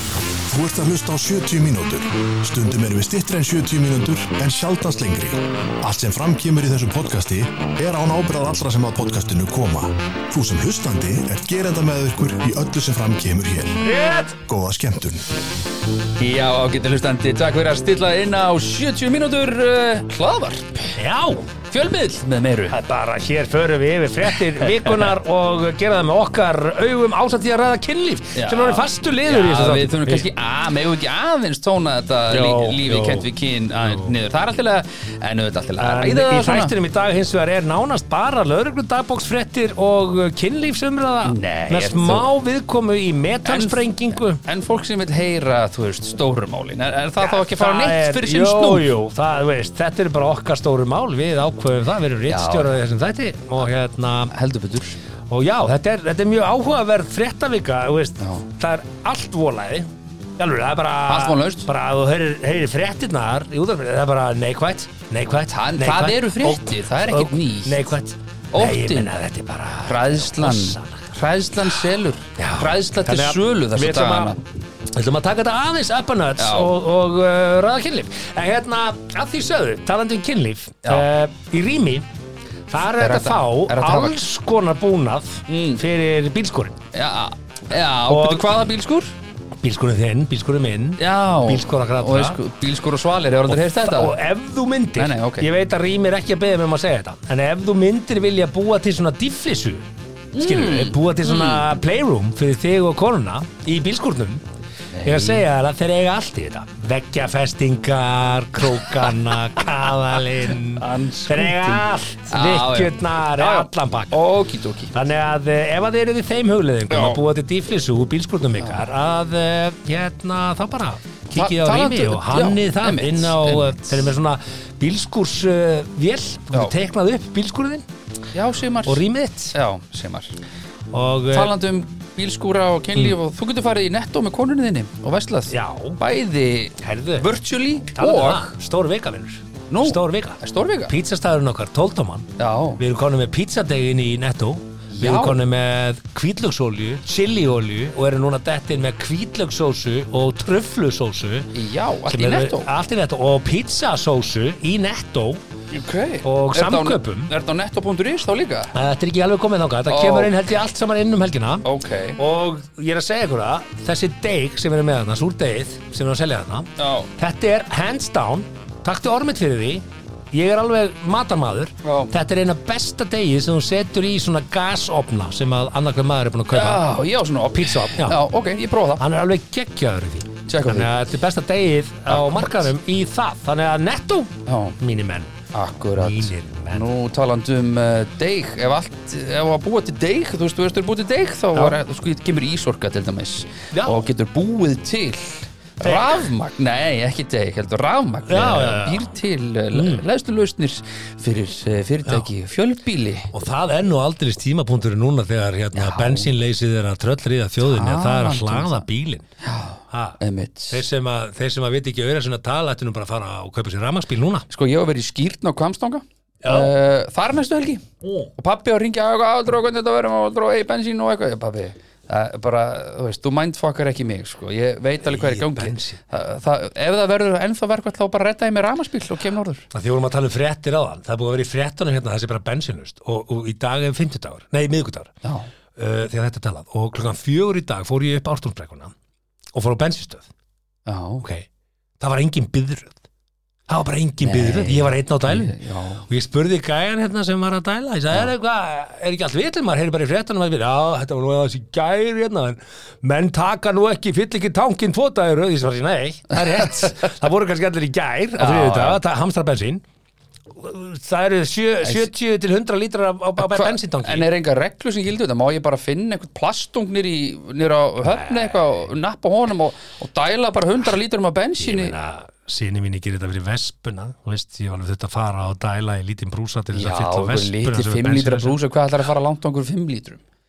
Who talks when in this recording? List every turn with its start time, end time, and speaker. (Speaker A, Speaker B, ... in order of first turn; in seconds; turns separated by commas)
Speaker A: 0.5-13.8, Speaker B: 13.8-14.4, Speaker A: 14.4-15.3, Speaker C: 16.2-21.0, Speaker B: 21.0-21.5, Speaker C: 21.7-22.8, Speaker B: 22.7-30.3, Speaker C: 24.6-25.1, Speaker C: 28.4-36.7, Speaker B: 32.3-33.3, Speaker B: 33.8-34.1, Speaker B: 35.8-44.4, Speaker C: 41.2-42.3, Speaker C: 43.5-48.9, Speaker B: 47.2-54.3, Speaker C: 52.3-52.8, Speaker C: 54.3-55.0, Speaker B: 55.3-71.1, Speaker C: 58.2-58.5, Speaker C: 61.1-61.7, Speaker C: 65.5-67.9, Speaker C: 68.5-69.1, Speaker C: 69.8-74.4, Speaker B: 72.4-74.3, Speaker B: 74.9-82.1, Speaker C: 76.4-76.7, Speaker B: 82.7-86.8, Speaker C: 83.0-84.2, Speaker C: 85.5-85.8, Speaker C: 86.9-89.1, Speaker B: 88.1-88.5, Speaker B: 89.6-92.4, Speaker C: 91.0-94.2, Speaker B: 93.5-104.4, Speaker C: 95.0-95.5, Speaker C: 100.3-101.7, Speaker C: 104.9-105.4, Speaker B: 105.0-114.2, Speaker C: 108.8-109.1, Speaker C: 110.8-114.9, Speaker B: 114.9-127.8, Speaker C: 116.9-117.2, Speaker C: 118.6-118.8, Speaker C: 121.3-124.0, Speaker C: 128.3-129.0, Speaker B: 128.9-129.6, Speaker C: 129.5-130.4, Speaker B: 130.9-131.5, Speaker C: 131.3-138.5, Speaker B: 135.5-136.0, Speaker B: 136.8-137.3, Speaker B: 137.9-142.3, Speaker C: 139.7-140.9, Speaker C: 142.4-142.8, Speaker B: 142.8-151.5, Speaker C: 144.9-145.4, Speaker C: 151.6-152.7, Speaker B: 152.1-155.4, Speaker C: 155.7-158.7, Speaker B: 156.2-157.3, Speaker B: 158.7-176.8, Speaker C: 159.9-160.3, Speaker C: 161.6-162.2, Speaker C: 166.8-167.1, Speaker C: 171.8-172.1, Speaker C: 176.5-179.0, Speaker B: 177.6-178.2, Speaker B: 179.0-185.3, Speaker C: 180.5-180.9, Speaker C: 182.1-182.7, Speaker C: 184.5-184.8, Speaker C: 185.5-203.3, Speaker B: 186.0-186.9, Speaker B: 193.7-194.0, Speaker B: 195.8-196.3, Speaker B: 198.3-199.1, Speaker B: 199.7-200.1, Speaker B: 203.3-209.3, Speaker C: 205.7-206.3, Speaker C: 207.6-208.8, Speaker C: 209.4-210.8, Speaker B: 209.9-210.2, Speaker B: 210.7-214.5, Speaker C: 214.5-217.8, Speaker B: 216.4-216.7, Speaker B: 218.0-218.3, Speaker C: 218.4-229.7, Speaker B: 225.1-226.0, Speaker B: 229.7-235.1, Speaker C: 235.2-235.5, Speaker B: 235.8-238.9, Speaker B: 239.5-240.3, Speaker C: 240.9-241.2, Speaker B: 242.0-243.0, Speaker B: 243.7-245.5, Speaker C: 244.2-246.1, Speaker B: 246.1-259.8, Speaker C: 256.3-257.0, Speaker C: 258.4-259.0, Speaker B: 260.5-264.3, Speaker C: 263.4-271.9, Speaker B: 268.1-268.8, Speaker B: 271.6-278.6, Speaker C: 276.7-280.2